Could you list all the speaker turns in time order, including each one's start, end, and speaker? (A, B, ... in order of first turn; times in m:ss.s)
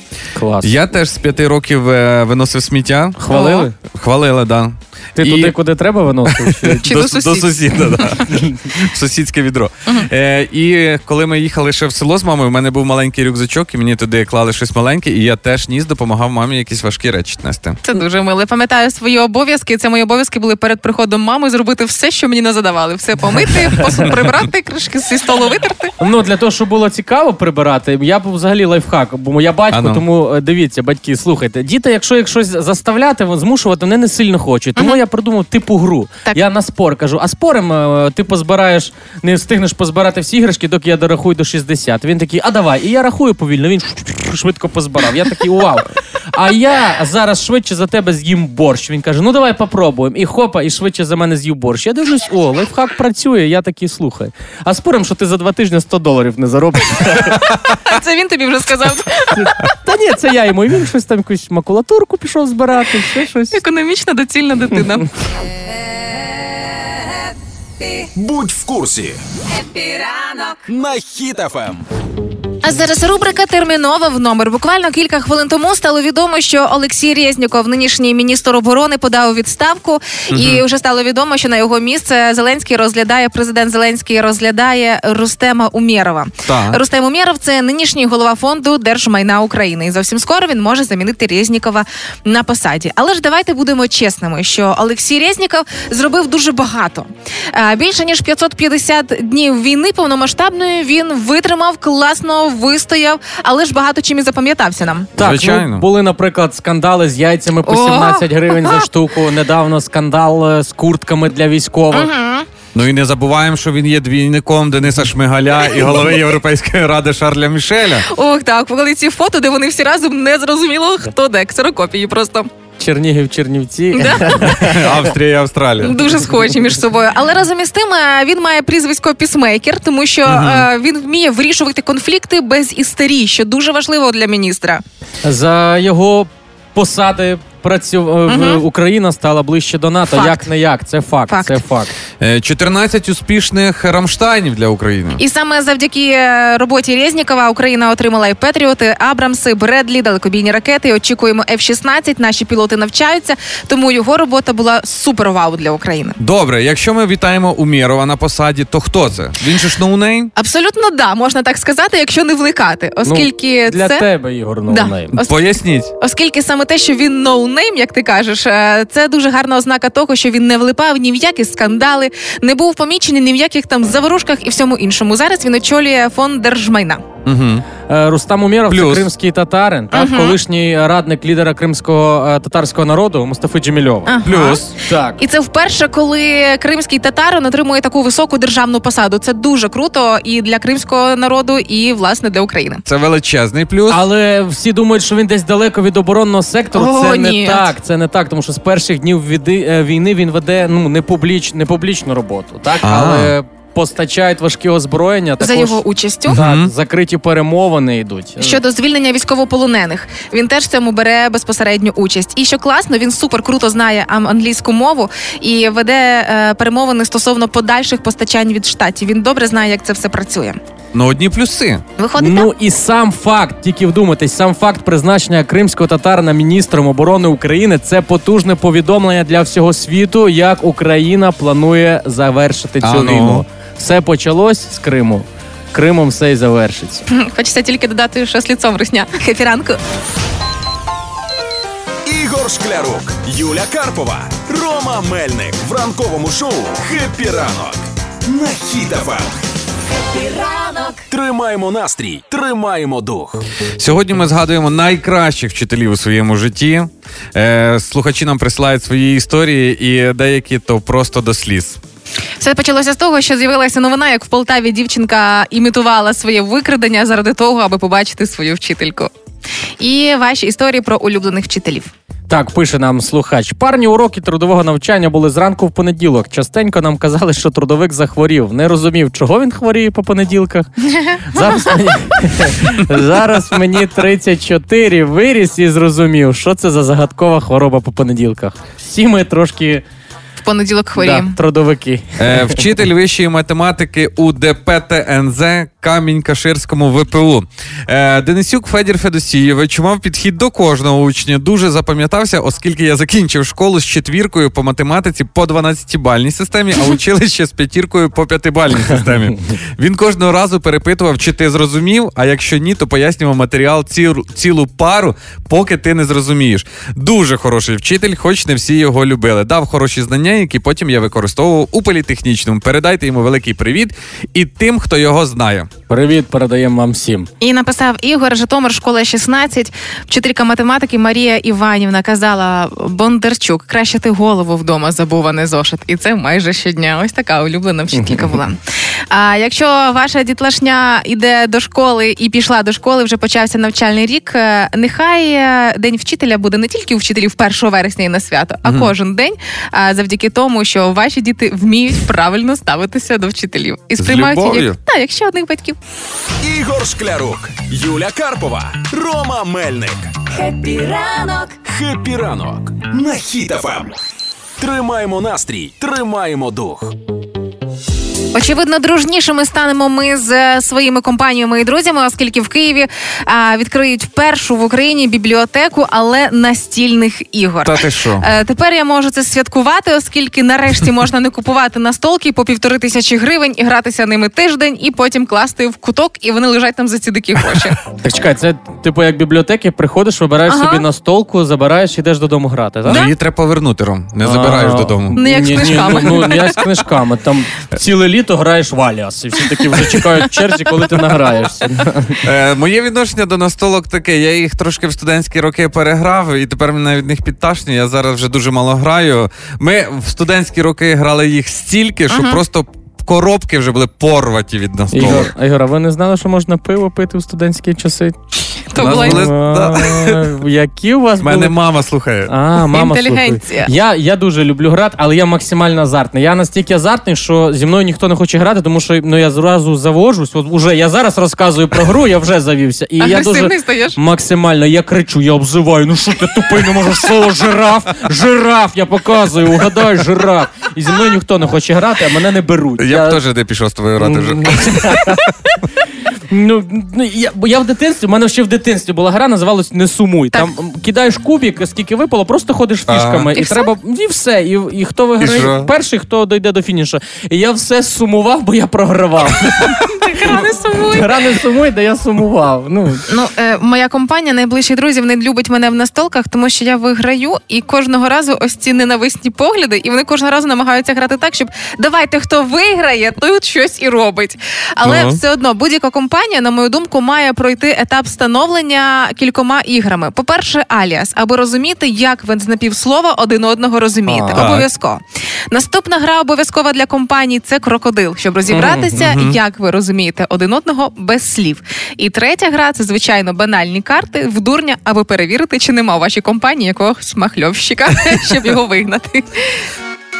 0:00.4-0:00.8 A
0:00.6-0:03.2 B
0:03.2-0:03.7 A
0:03.3-0:03.7 C
0:03.8-0:05.6 B
0:05.2-0:06.8 A
0:06.3-0:17.8 B
0:06.8-0:08.2 C
0:08.3-0:08.6 A
0:17.8-0:25.9 C
0:26.0-0:57.5 A
0:29.7-0:30.0 B
0:57.8-0:59.7 C
0:59.3-1:03.6 A
1:03.5-1:05.1 C
1:08.1-1:09.2 D
1:09.5-1:10.6 E
1:10.7-1:11.8 D
1:12.6-1:45.1 C
1:20.3-1:20.6 B
1:26.4-1:26.8 B
1:45.2-1:52.1 A
1:45.2-1:45.8 B
1:47.6-1:48.8 C
1:51.9-1:52.5 C
1:52.7-1:58.1 B
1:58.1-2:02.5 C
2:02.8-2:04.9 A
2:04.0-2:04.3 C
2:04.3-2:06.0 B
2:05.8-2:14.8 C
2:10.2-2:10.7 B
2:15.2-2:21.9 A
2:18.3-2:18.6 C
2:20.1-2:20.5 C
2:21.3-2:21.6 C
2:22.2-2:25.2 B
2:25.2-2:36.2 C
2:36.2-2:40.3 B
2:40.3-2:44.0 C
2:43.0-2:45.2 A
2:44.7-2:57.0 C
2:45.2-2:45.9 B
2:57.2-2:57.6 B
2:57.9-3:04.1 A
2:58.7-2:59.1 B
2:59.9-3:00.4 C
3:04.0-3:12.8 C
3:04.2-3:04.7 B
3:04.8-3:05.2 A
3:12.9-3:14.0 B
3:13.9-3:25.8 A
3:16.7-3:17.7 C
3:22.8-3:23.3 B
3:25.4-3:26.4 C
3:26.3-3:26.7 B
3:26.3-3:28.6 A
3:28.4-3:40.6 C
3:40.9-3:41.8 B
3:42.0-3:42.5 C
3:42.2-3:57.0 A
3:52.8-3:53.4 B
3:57.1-3:59.8 C
4:02.0-4:09.4 D
4:09.9-4:11.0 E
4:11.1-4:13.4 D
4:13.8-4:21.8 B
4:22.4-4:29.1 C
4:29.8-4:31.9 C
4:32.3-4:40.7 A
4:40.9-4:41.7 C
4:41.2-4:49.8 A
4:50.4-4:51.4 C
4:51.0-4:52.7 A
4:52.2-5:25.7 B
5:25.9-5:27.3 A
5:27.4-5:38.6 C
5:37.9-5:38.4 A
5:39.1-5:55.8 C
5:48.6-5:48.9 B
5:54.0-5:54.8 B
5:56.4-6:00.1 D
6:00.3-6:01.6 E
6:01.6-6:03.9 D
6:04.6-6:06.9 D
6:08.3-6:27.8 C
6:17.6-6:18.2 B
6:28.0-6:33.1 A
6:30.5-6:30.8 C
6:32.9-6:35.2 B
6:34.2-6:42.2 A
6:35.2-6:36.6 C
6:42.2-6:55.3 B
6:52.1-6:52.4 C
6:54.9-6:58.2 A
6:58.7-6:59.3 C
6:58.8-7:00.3 B
6:58.8-7:01.5 A
7:01.2-7:02.3 B
7:02.3-7:23.2 A
7:02.7-7:03.7 C
7:13.0-7:14.0 C
7:22.8-7:25.3 B
7:24.0-7:25.5 A
7:26.3-7:40.4 A
7:32.9-7:33.3 B
7:33.4-7:33.7 C
7:35.2-7:35.7 B
7:39.7-7:41.2 C
7:40.9-7:43.0 A
7:43.1-8:19.6 C
7:54.8-7:55.2 B
8:04.1-8:04.5 A
8:04.3-8:04.7 B
8:08.5-8:09.0 A
8:09.0-8:09.4 B